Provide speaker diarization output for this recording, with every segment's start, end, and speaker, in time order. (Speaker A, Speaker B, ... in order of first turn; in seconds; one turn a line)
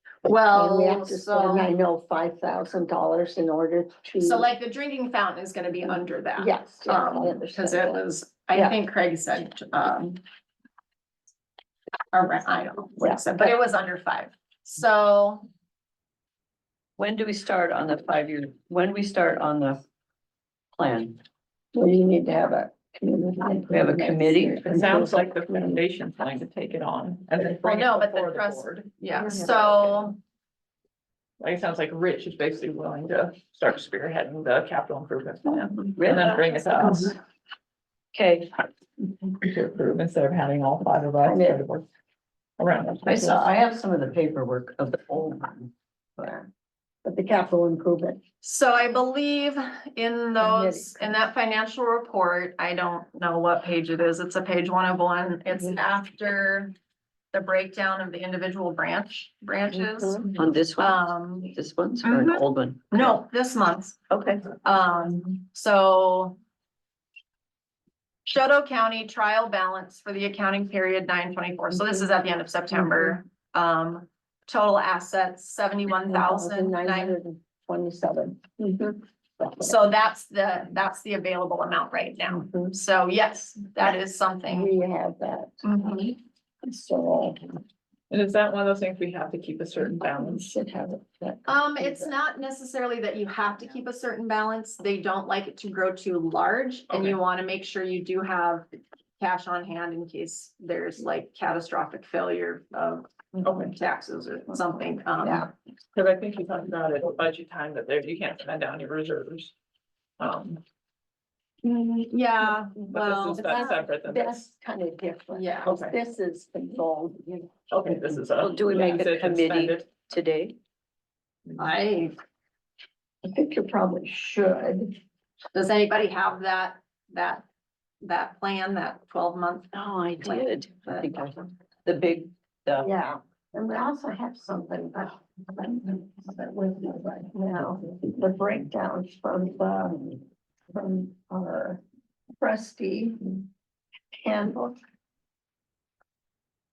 Speaker A: 0.2-1.7
Speaker B: 0.5-4.5
Speaker A: 4.2-10.2
Speaker B: 6.4-8.0
Speaker A: 12.1-15.4
Speaker B: 13.0-13.5
Speaker C: 17.0-19.8
Speaker C: 20.7-21.2
Speaker B: 21.7-25.7
Speaker C: 23.7-25.0
Speaker D: 24.6-28.9
Speaker A: 27.5-30.2
Speaker D: 31.4-37.1
Speaker C: 36.0-37.1
Speaker C: 38.1-38.5
Speaker D: 39.4-41.8
Speaker B: 41.2-41.6
Speaker D: 42.6-43.5
Speaker C: 43.0-45.7
Speaker B: 46.2-46.5
Speaker B: 47.0-48.2
Speaker A: 48.4-56.7
Speaker B: 50.4-51.1
Speaker A: 57.3-64.0
Speaker B: 59.7-60.3
Speaker C: 60.4-63.2
Speaker C: 64.1-64.4
Speaker A: 64.6-66.4
Speaker A: 68.3-77.2
Speaker B: 72.7-73.2
Speaker B: 76.0-79.7
Speaker A: 79.6-84.7
Speaker B: 82.3-82.8
Speaker B: 84.5-86.0
Speaker A: 85.6-86.2
Speaker B: 86.6-87.6
Speaker D: 88.1-90.5
Speaker B: 90.1-92.1
Speaker A: 91.5-98.7
Speaker A: 99.2-105.5
Speaker D: 103.4-103.7
Speaker B: 105.2-105.5
Speaker D: 105.9-109.5
Speaker D: 110.2-110.6
Speaker A: 111.6-113.8
Speaker D: 112.9-114.4
Speaker B: 113.3-117.6
Speaker A: 115.3-115.7
Speaker D: 115.7-115.9
Speaker D: 117.7-119.8
Speaker C: 118.4-120.6
Speaker A: 121.6-122.2
Speaker B: 123.2-125.0
Speaker A: 125.5-127.4
Speaker A: 128.0-131.3
Speaker C: 129.7-132.9
Speaker B: 132.8-141.8
Speaker B: 142.4-143.4
Speaker B: 144.2-144.8